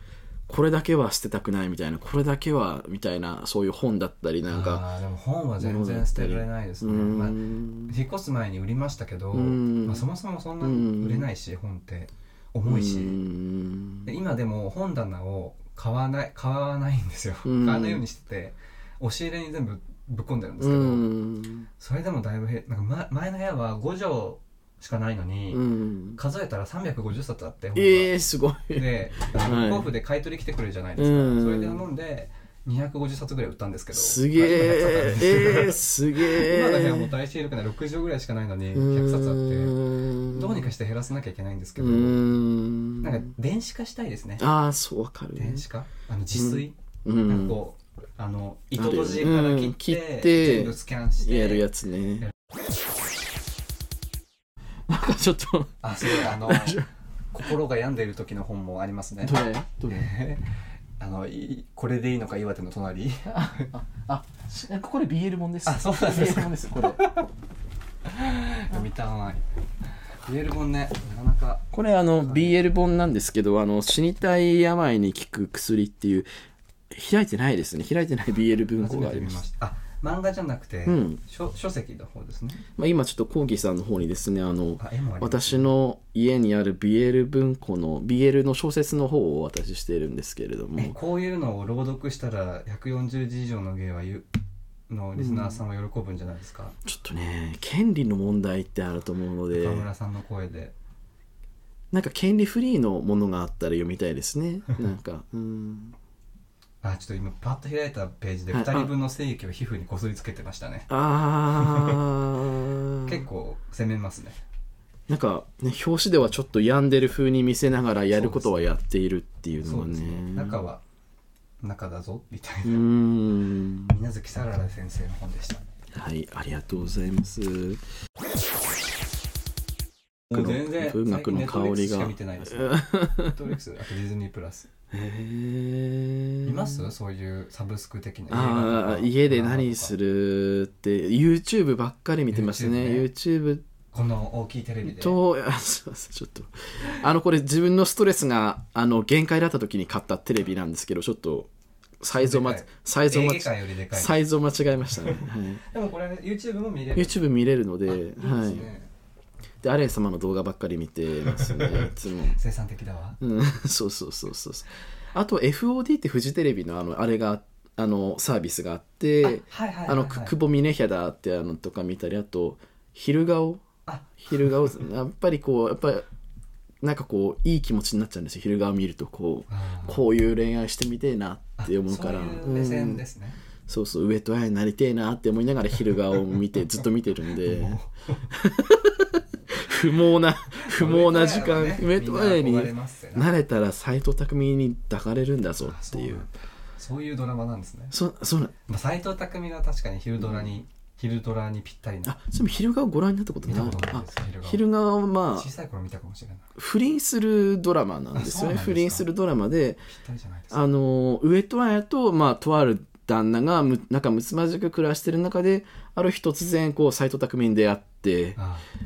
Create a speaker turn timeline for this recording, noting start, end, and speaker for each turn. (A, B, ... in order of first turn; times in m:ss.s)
0:00.5-0:04.8 A
0:04.4-0:13.2 B
0:05.6-0:08.0 A
0:09.3-0:10.1 A
0:10.6-0:11.3 A
0:12.6-0:14.1 A
0:14.0-0:21.1 B
0:17.4-0:18.0 A
0:20.6-0:21.7 A
0:21.8-0:25.6 B
0:25.5-0:26.2 A
0:26.2-0:28.1 B
0:27.7-0:29.9 A
0:28.7-0:42.2 B
0:31.0-0:31.8 A
0:33.9-0:37.1 A
0:38.7-0:40.7 A
0:41.8-0:43.3 A
0:43.0-0:44.4 B
0:44.4-0:45.6 A
0:45.4-0:51.6 B
0:46.3-0:47.6 A
0:48.7-0:52.3 A
0:54.9-0:56.9 A
0:55.8-0:56.8 B
0:57.3-1:00.5 B
0:59.2-1:00.1 A
1:01.0-1:03.7 B
1:03.2-1:07.1 A
1:05.6-1:07.3 B
1:08.1-1:09.4 B
1:10.2-1:11.7 B
1:11.7-1:16.3 A
1:12.2-1:12.6 B
1:16.9-1:19.4 A
1:18.8-1:22.6 B
1:20.8-1:21.2 A
1:22.8-1:31.0 A
1:24.8-1:25.7 B
1:30.8-1:34.3 B
1:34.9-1:36.8 B
1:35.2-1:35.6 A
1:36.8-1:39.8 A
1:39.5-1:40.7 B
1:41.9-1:45.9 A
1:46.8-1:50.9 B
1:48.5-1:48.9 A
1:50.9-1:53.2 A
1:51.5-1:52.0 B
1:53.0-1:54.4 B
1:55.1-2:00.6 A
1:58.1-1:58.7 B
1:59.6-2:00.8 B
2:01.6-2:02.8 B
2:02.6-2:03.9 A
2:03.9-2:05.6 B
2:05.9-2:07.8 A
2:10.3-2:14.7 B
2:10.3-2:13.4 A
2:14.9-2:16.8 A
2:16.4-2:20.0 B
2:18.3-2:23.6 A
2:22.3-2:23.1 B
2:23.9-2:25.2 B
2:24.8-2:35.6 A
2:32.1-2:34.2 B
2:34.8-2:37.2 B
2:37.0-2:38.7 A
2:37.9-2:38.9 B
2:39.6-2:42.4 A
2:41.2-2:43.2 B
2:43.2-2:53.6 A
2:49.2-2:50.4 B
2:53.8-2:54.5 B
2:54.2-2:56.1 A
2:56.8-3:03.0 A
2:59.5-3:00.0 B
3:01.6-3:03.4 B
3:03.7-3:07.8 A
3:07.3-3:08.3 B
3:08.3-3:16.3 A
3:10.5-3:13.3 B
3:15.6-3:17.9 B
3:17.9-3:18.5 A
3:18.6-3:22.2 B
3:20.2-3:20.4 A
3:22.0-3:25.5 A
3:23.4-3:24.6 B
3:25.3-3:26.5 B
3:26.6-3:29.9 A
3:28.1-3:29.0 B
3:29.9-3:30.6 B
3:30.5-3:38.4 A
3:38.4-3:38.6 B